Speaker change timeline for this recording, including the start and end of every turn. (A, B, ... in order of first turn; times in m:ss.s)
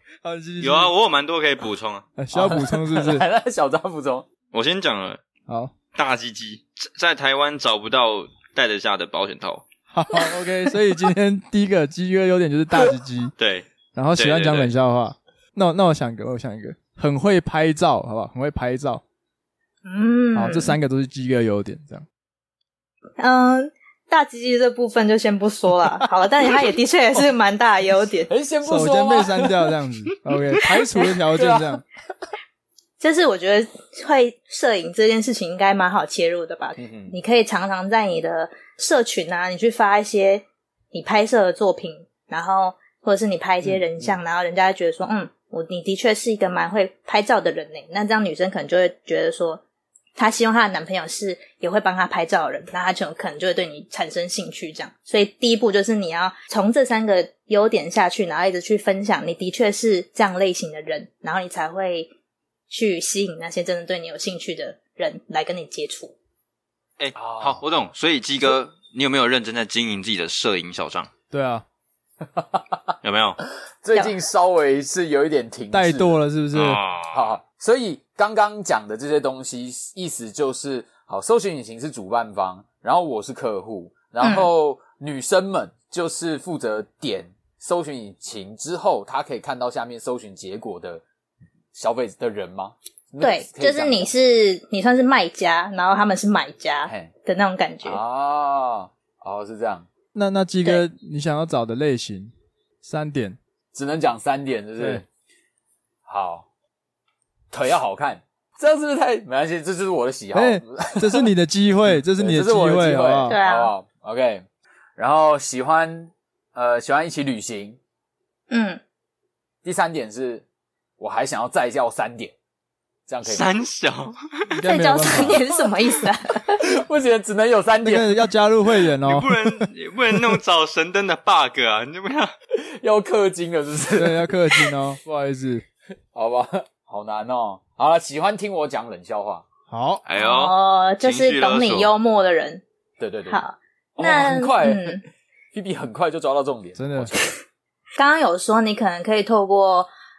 0:00.2-0:00.9 A
0:00.6-0:02.0 B
0:02.2-0:03.2 A
0:02.3-0:04.3 C
0:04.5-0:05.2 B
0:05.5-0:05.7 A
0:05.9-0:09.6 B
0:09.9-0:13.3 A
0:13.4-0:14.7 B
0:13.9-0:19.0 A
0:19.8-0:20.8 D
0:20.3-0:22.0 A
0:23.2-0:28.3 D
0:28.3-0:29.7 C
0:28.6-0:31.8 A
0:31.3-0:31.8 C
0:33.0-0:49.6 D
0:36.8-0:37.1 C
0:43.6-0:44.1 C
0:50.2-1:02.1 D
1:02.7-1:06.1 D
1:07.0-1:11.1 B
1:07.2-1:07.6 C
1:11.3-1:11.6 A
1:12.2-1:12.9 C
1:13.0-1:13.4 B
1:13.8-1:16.2 C
1:15.7-1:16.8 A
1:16.5-1:17.3 B
1:17.1-1:31.0 C
1:24.2-1:24.5 D
1:31.7-1:34.1 C
1:33.2-1:38.0 D
1:37.8-1:39.9 C
1:40.1-1:43.4 A
1:43.7-1:45.0 C
1:46.0-1:46.4 C
1:47.5-1:51.3 C
1:50.3-1:53.3 A
1:51.9-1:57.8 C
1:53.3-1:53.7 D
1:58.5-1:58.8 D
1:59.6-2:00.4 C
2:01.0-2:02.3 C
2:03.1-2:03.4 C
2:03.2-2:04.4 B
2:04.5-2:05.4 A
2:04.6-2:06.6 D
2:06.5-2:08.1 C
2:07.8-2:09.6 A
2:09.0-2:12.3 B
2:12.6-2:14.7 C
2:14.0-2:15.6 A
2:16.1-2:19.4 C
2:19.7-2:20.0 A
2:20.0-2:21.9 B
2:20.2-2:22.6 D
2:23.0-2:23.4 C
2:23.3-2:25.0 D
2:24.0-2:27.1 C
2:26.8-2:27.1 A
2:28.0-2:29.9 D